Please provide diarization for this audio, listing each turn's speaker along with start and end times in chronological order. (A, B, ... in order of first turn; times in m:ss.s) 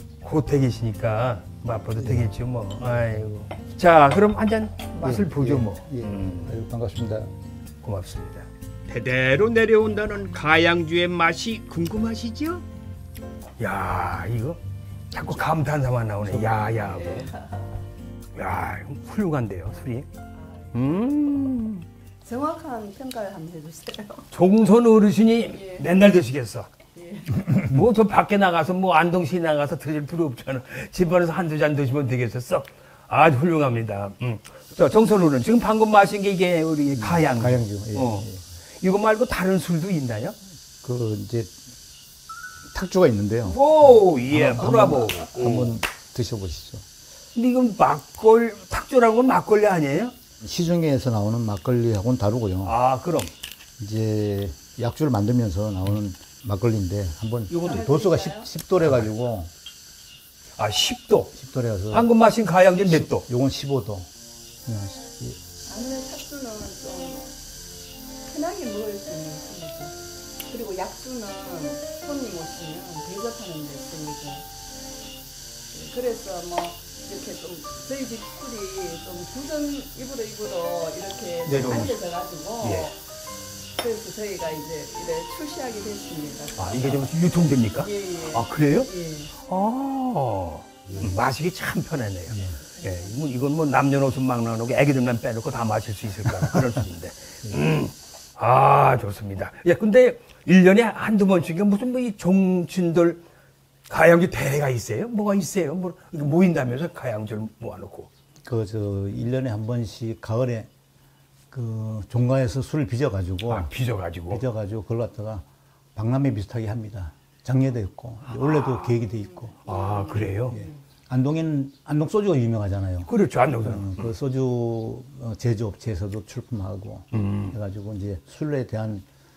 0:00.2-0:06.5 A
0:02.0-0:02.3 B
0:05.0-0:07.3 B
0:07.8-0:08.5 A
0:08.9-0:12.6 C
0:13.6-0:14.6 A
0:15.1-0:17.3 A
0:16.9-0:17.6 D
0:18.3-0:20.1 A
0:20.7-0:21.8 A
0:22.2-0:24.3 D
0:24.3-0:26.7 A
0:25.5-0:25.8 D
0:26.9-0:27.4 D
0:27.4-0:38.3 A
0:36.9-0:38.4 B
0:38.8-0:40.4 A
0:40.8-0:41.6 B
0:42.7-0:46.8 B
0:43.5-0:45.8 A
0:47.3-0:50.2 A
0:50.4-0:52.8 B
0:52.6-0:53.3 A
0:53.8-0:59.5 B
0:57.5-0:58.5 D
0:58.8-0:59.1 A
1:00.6-1:01.3 A
1:01.3-1:02.1 B
1:01.9-1:03.3 A
1:02.8-1:04.1 B
1:04.6-1:05.4 B
1:05.7-1:07.3 D
1:08.3-1:10.0 D
1:10.5-1:14.5 D
1:15.7-1:23.0 D
1:21.4-1:22.0 A
1:22.6-1:22.9 A
1:23.8-1:27.1 D
1:26.5-1:43.2 A
1:27.7-1:29.3 D
1:32.3-1:32.6 B
1:43.9-1:48.1 A
1:48.4-1:50.7 B
1:51.5-1:53.7 B
1:53.5-1:54.4 A
1:54.3-1:59.6 B
1:58.4-1:58.9 A
1:59.6-2:00.6 A
1:59.7-2:00.1 D
2:00.5-2:09.1 B
2:03.1-2:04.1 A
2:07.1-2:07.6 A